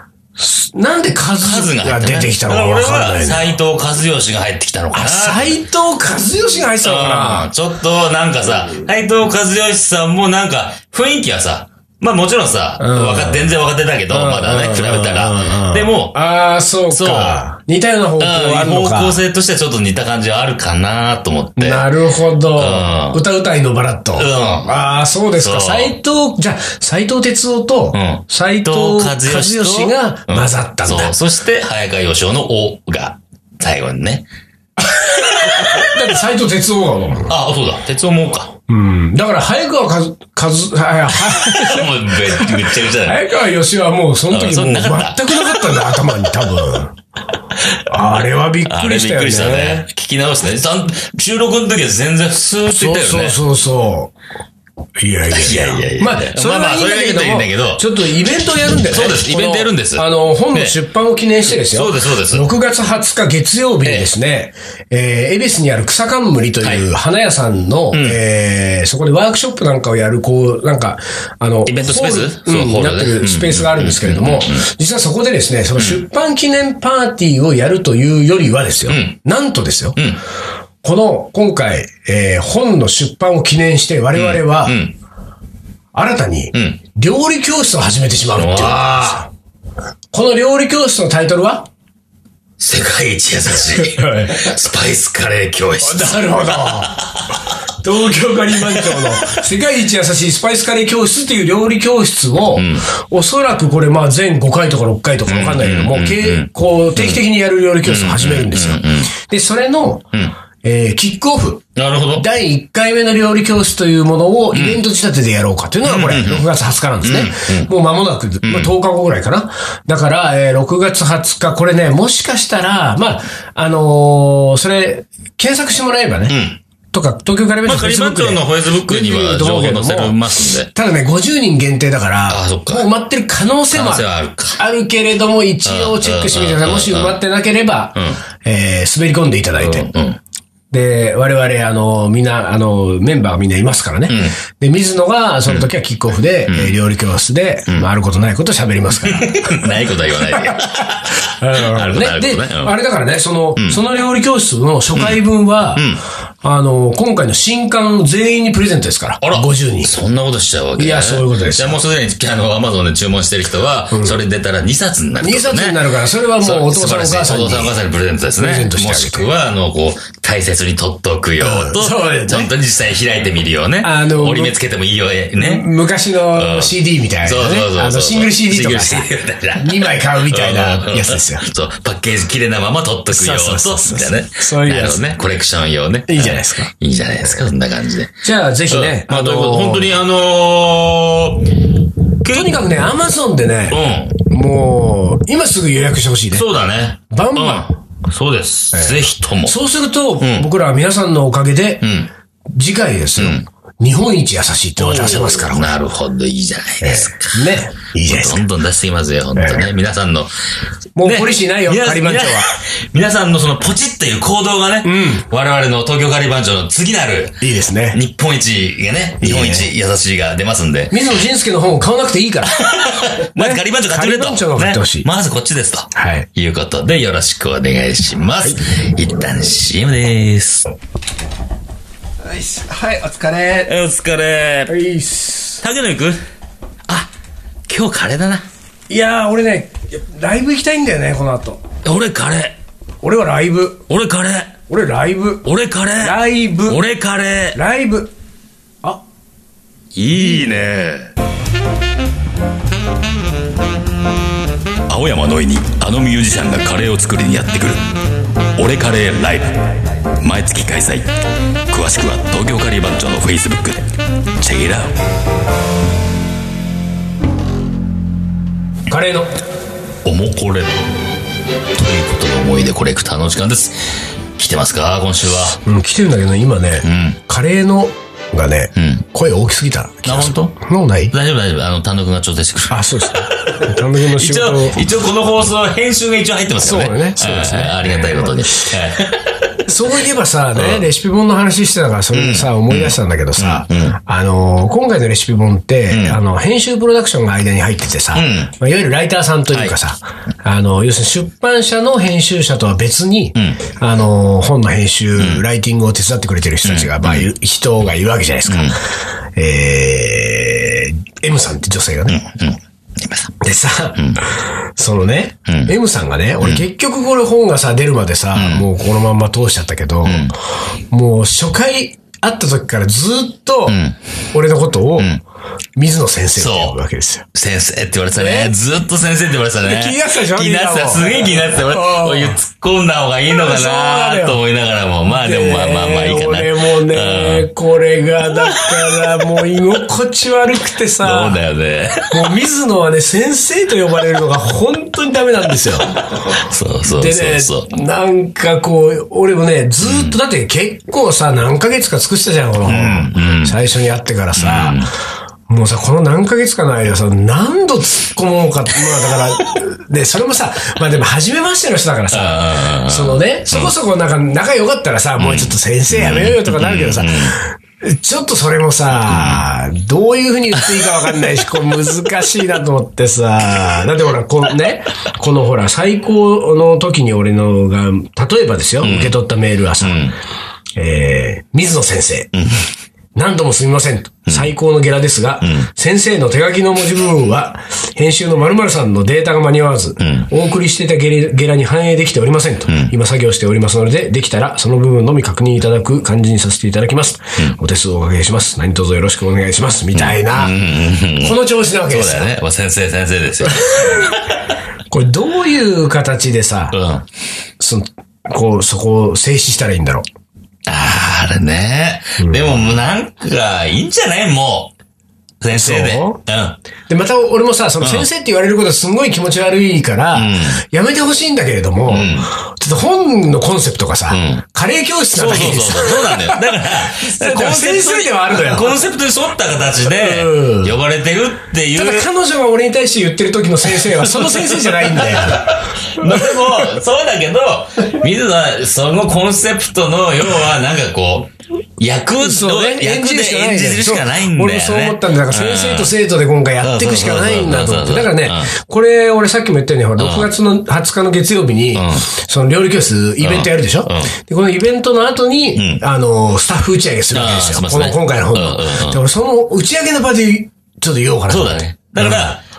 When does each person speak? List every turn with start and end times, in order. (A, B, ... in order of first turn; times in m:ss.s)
0:00.4-0:03.5 A
0:01.4-0:05.6 B
0:04.9-0:07.5 A
0:06.8-0:16.2 B
0:12.8-0:13.5 A
0:14.1-0:19.2 A
0:16.9-0:17.4 B
0:18.2-0:21.9 B
0:21.6-0:31.2 A
0:22.5-0:23.2 B
0:24.2-0:24.8 B
0:25.3-0:26.0 B
0:27.9-0:34.2 B
0:34.8-0:37.3 A
0:34.9-0:36.0 B
0:37.3-0:38.5 B
0:38.7-0:46.9 A
0:41.1-0:43.2 B
0:44.3-0:46.0 B
0:47.6-0:53.4 B
0:47.9-0:49.8 A
0:52.7-0:54.1 A
0:55.0-1:20.0 A
0:55.3-0:57.9 B
0:58.9-1:00.8 B
1:01.5-1:02.5 B
1:06.6-1:06.9 B
1:07.9-1:08.2 B
1:11.6-1:14.7 B
1:15.8-1:16.0 B
1:18.9-1:19.2 B
1:20.0-1:20.2 B
1:20.8-1:24.8 A
1:24.1-1:24.9 B
1:25.9-1:29.3 A
1:26.5-1:26.8 B
1:28.3-1:29.2 B
1:30.1-1:31.7 A
1:32.6-1:37.5 B
1:33.6-1:34.5 A
1:35.8-1:36.9 A
1:37.8-1:50.1 A
1:38.7-1:39.4 B
1:42.5-1:42.9 B
1:45.3-1:47.2 B
1:47.8-1:49.1 B
1:50.6-2:06.4 A
1:51.8-1:52.3 B
1:54.5-1:54.8 B
1:55.8-1:56.4 B
1:57.0-1:57.7 B
1:58.4-1:58.7 B
2:06.3-2:06.6 B
2:06.9-2:10.2 A
2:07.6-2:10.7 B
2:10.7-2:14.0 A
2:12.3-2:12.9 B
2:13.7-2:14.6 B
2:14.6-2:19.9 A
2:15.6-2:17.2 B
2:17.9-2:18.2 B
2:19.6-2:20.2 B
2:20.7-2:35.8 A
2:24.1-2:24.4 B
2:26.5-2:26.7 B
2:29.0-2:32.7 B
2:33.6-2:33.8 B
2:34.9-2:35.2 B
2:35.7-2:36.0 B
2:36.4-2:39.9 A
2:39.2-2:55.7 B
2:40.8-2:41.8 A
2:43.9-2:44.2 A
2:45.2-2:47.8 A
2:48.4-2:49.3 A
2:51.4-2:52.5 A
2:53.8-2:54.5 A
2:55.4-3:01.4 A
2:56.3-3:11.5 B
3:03.1-3:05.1 A
3:06.1-3:06.7 A
3:08.2-3:10.0 A
3:12.2-3:12.6 B
3:12.3-3:16.5 A
3:13.7-3:14.2 B
3:16.3-3:19.6 B
3:17.1-3:17.7 A
3:18.7-3:21.9 A
3:20.2-3:20.4 B
3:21.8-3:22.1 B
3:22.5-3:25.7 A
3:23.2-3:23.4 B
3:24.8-3:30.3 B
3:26.8-3:28.4 A
3:29.4-3:29.7 A
3:31.0-3:32.5 A
3:31.0-3:41.0 B
3:34.8-3:35.2 A
3:37.4-3:38.0 A
3:39.2-3:39.7 A
3:40.9-3:42.6 A
3:42.4-3:50.6 B
3:43.4-3:45.1 A
3:45.9-3:46.3 A
3:52.2-3:53.7 A
3:53.6-3:54.8 B
3:54.7-3:55.6 A
3:55.6-3:56.2 B
3:57.7-3:58.4 B
3:58.9-4:01.6 A
4:01.8-4:02.6 B
4:03.0-4:03.8 A
4:03.9-4:04.5 B
4:04.7-4:05.5 A
4:05.4-4:07.6 B
4:06.0-4:06.8 A
4:07.5-4:08.1 A
4:09.9-4:11.1 B
4:14.9-4:17.8 B
4:18.6-4:21.1 B
4:21.7-4:24.9 B
4:28.9-4:29.3 A
4:30.0-4:30.8 B
4:31.7-4:35.6 B
4:35.6-4:41.1 A
4:36.8-4:37.2 B
4:38.7-4:39.0 B
4:40.0-4:40.6 B
4:41.1-4:49.7 B
4:42.7-4:44.9 A
4:46.6-4:48.7 A
4:49.7-5:08.8 A
4:50.5-4:50.8 B
4:52.1-4:54.0 B
4:55.9-4:56.2 B
4:58.1-4:58.5 B
5:03.3-5:03.7 B
5:05.2-5:05.4 B
5:06.6-5:07.3 B
5:08.5-5:08.8 B
5:09.3-5:12.2 A
5:12.1-5:13.3 B
5:13.4-5:20.3 A
5:14.0-5:14.2 B
5:15.5-5:15.7 B
5:18.3-5:18.7 B
5:20.0-5:20.3 B
5:20.9-5:23.8 A
5:23.7-5:24.0 B
5:24.3-5:25.1 A
5:25.8-5:27.2 A
5:26.4-5:26.8 B
5:27.3-5:37.5 B
5:28.1-5:28.5 A
5:29.6-5:32.4 A
5:33.3-5:34.4 A
5:35.1-5:41.4 A
5:38.4-5:39.4 B
5:41.0-5:42.3 B
5:42.1-5:45.9 A
5:46.0-5:47.7 B
5:46.9-5:54.9 A
5:49.8-5:50.2 B
5:52.6-5:53.6 B
5:54.4-5:54.9 B
5:55.5-6:20.1 A
6:02.1-6:03.7 B
6:05.2-6:07.4 B
6:09.0-6:09.5 B
6:18.8-6:19.2 B
6:19.8-6:20.2 B
6:20.8-6:22.3 A
6:22.3-6:22.7 B
6:23.1-6:40.6 A
6:25.4-6:25.7 B
6:30.0-6:30.3 B
6:32.7-6:32.9 B
6:39.9-6:44.5 B
6:41.2-6:42.3 A
6:43.4-6:44.2 A
6:44.9-6:46.8 A
6:46.7-6:47.1 B
6:47.6-6:50.0 A
6:50.6-6:54.7 B
6:52.2-6:52.8 A
6:55.4-6:56.6 B
6:55.5-6:56.2 A
6:56.9-7:08.8 A
6:57.8-6:58.1 B
7:00.1-7:00.6 B
7:01.9-7:02.3 B
7:04.1-7:04.4 B
7:05.1-7:12.1 B
7:09.8-7:10.8 A
7:11.7-7:16.6 A
7:13.7-7:25.9 B
7:22.2-7:42.3 A
7:26.6-7:28.5 B
7:30.0-7:30.3 B
7:31.7-7:32.1 B
7:33.2-7:34.1 B
7:35.5-7:35.8 B
7:37.1-7:39.0 B
7:41.3-7:42.4 B